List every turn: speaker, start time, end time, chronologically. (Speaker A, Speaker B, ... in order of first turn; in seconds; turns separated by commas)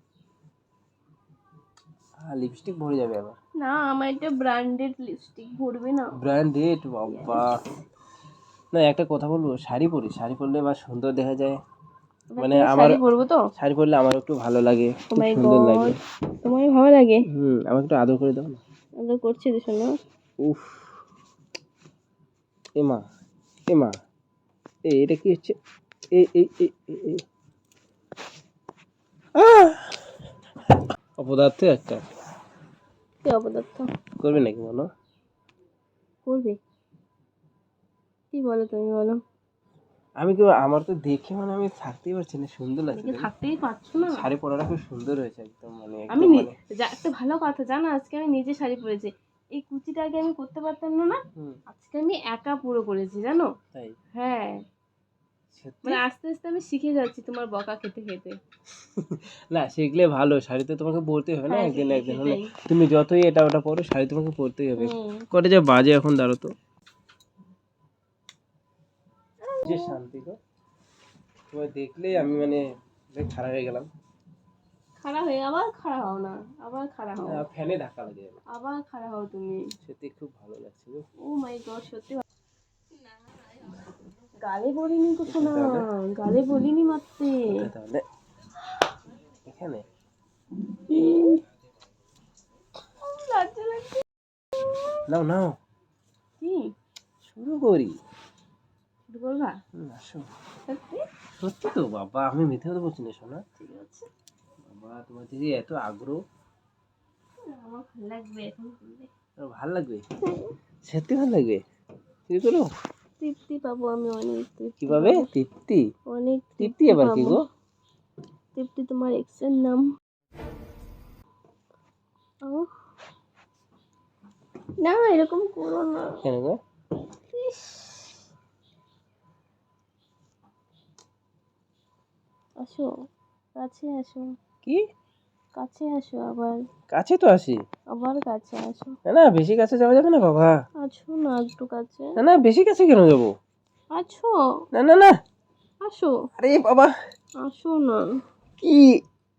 Speaker A: 2.2-3.4, Speaker B: 3.6-6.2, Speaker A: 6.2-7.6, Speaker B: 7.1-7.7, Speaker A: 8.7-11.6, Speaker B: 12.3-13.4, Speaker A: 12.4-13.0, Speaker A: 13.6-15.9, Speaker B: 15.1-17.2, Speaker A: 17.3-18.6, Speaker B: 19.0-19.9, Speaker A: 20.4-21.0, Speaker A: 22.8-23.0, Speaker A: 23.7-23.9, Speaker A: 24.9-25.6, Speaker A: 26.1-27.2, Speaker A: 29.4-30.1, Speaker A: 31.2-32.0, Speaker B: 33.2-33.9, Speaker A: 34.2-34.9, Speaker B: 36.2-36.6, Speaker B: 38.3-39.2, Speaker A: 40.2-43.3, Speaker B: 42.9-44.2, Speaker A: 44.0-46.6, Speaker B: 46.1-51.2, Speaker B: 51.7-53.5, Speaker B: 54.1-54.6, Speaker A: 55.5-56.0, Speaker B: 55.8-58.4, Speaker A: 59.0-66.5, Speaker B: 61.5-62.5, Speaker B: 64.8-65.2, Speaker B: 69.4-70.0, Speaker A: 69.6-70.4, Speaker A: 71.5-73.9, Speaker B: 75.0-77.4, Speaker A: 77.2-78.4, Speaker B: 78.5-79.6, Speaker A: 79.8-81.0, Speaker B: 81.2-82.2, Speaker B: 84.4-87.5, Speaker A: 85.3-85.8, Speaker A: 87.5-88.0, Speaker A: 89.4-89.8, Speaker B: 90.9-91.4, Speaker B: 93.0-94.0, Speaker A: 95.1-95.6, Speaker B: 96.4-96.7, Speaker A: 97.2-98.0, Speaker B: 99.1-99.6, Speaker A: 99.7-100.3, Speaker B: 100.7-101.0, Speaker A: 101.4-103.4, Speaker B: 103.6-104.1, Speaker A: 104.6-106.2, Speaker B: 107.5-109.1, Speaker A: 109.4-110.0, Speaker B: 110.2-110.5, Speaker A: 110.8-111.6, Speaker A: 112.3-112.7, Speaker B: 113.2-115.2, Speaker A: 114.8-115.8, Speaker B: 116.1-117.4, Speaker A: 116.6-117.4, Speaker B: 118.5-119.9, Speaker B: 122.4-122.7, Speaker B: 124.8-126.2, Speaker A: 126.2-126.6, Speaker B: 127.3-128.0, Speaker B: 132.6-132.9, Speaker B: 133.6-134.3, Speaker B: 135.6-136.6, Speaker A: 136.9-137.6, Speaker B: 137.9-138.9, Speaker A: 139.1-140.6, Speaker B: 140.8-142.1, Speaker A: 142.2-143.3, Speaker B: 143.9-144.3, Speaker A: 144.7-145.1, Speaker B: 145.8-146.2, Speaker A: 146.4-146.9, Speaker B: 147.4-148.2, Speaker A: 148.6-149.0